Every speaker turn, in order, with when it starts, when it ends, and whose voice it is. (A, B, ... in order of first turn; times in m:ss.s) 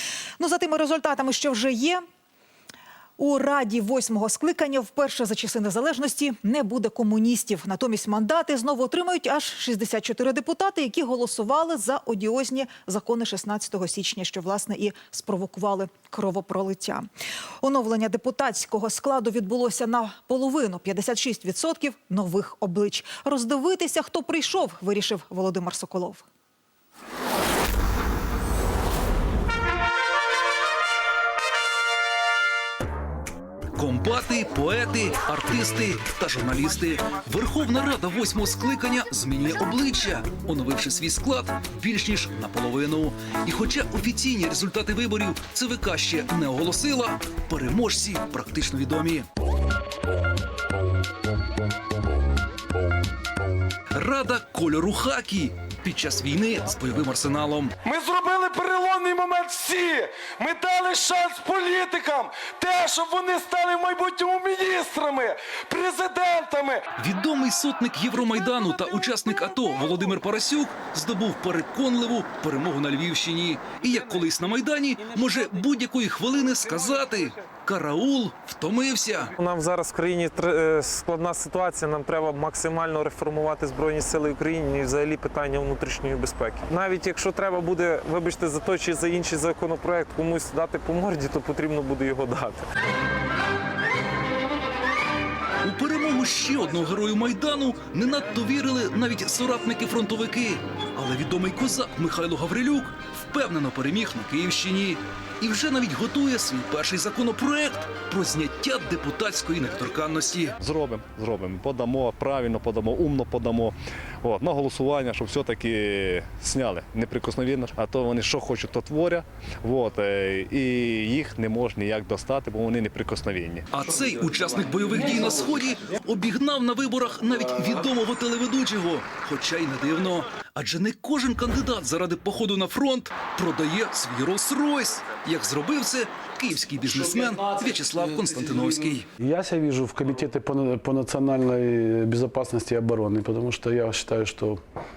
0:00.4-0:02.0 A
0:03.2-0:17.1 A
0:17.6-0:26.2 A
0:33.8-0:49.3 B
0:54.0-0:57.8 B
0:57.9-1:06.8 C
1:07.0-1:19.3 B
1:19.4-1:32.6 D
1:35.6-1:50.6 B
1:50.6-2:03.7 E
2:03.7-2:19.1 B
2:19.2-2:24.6 F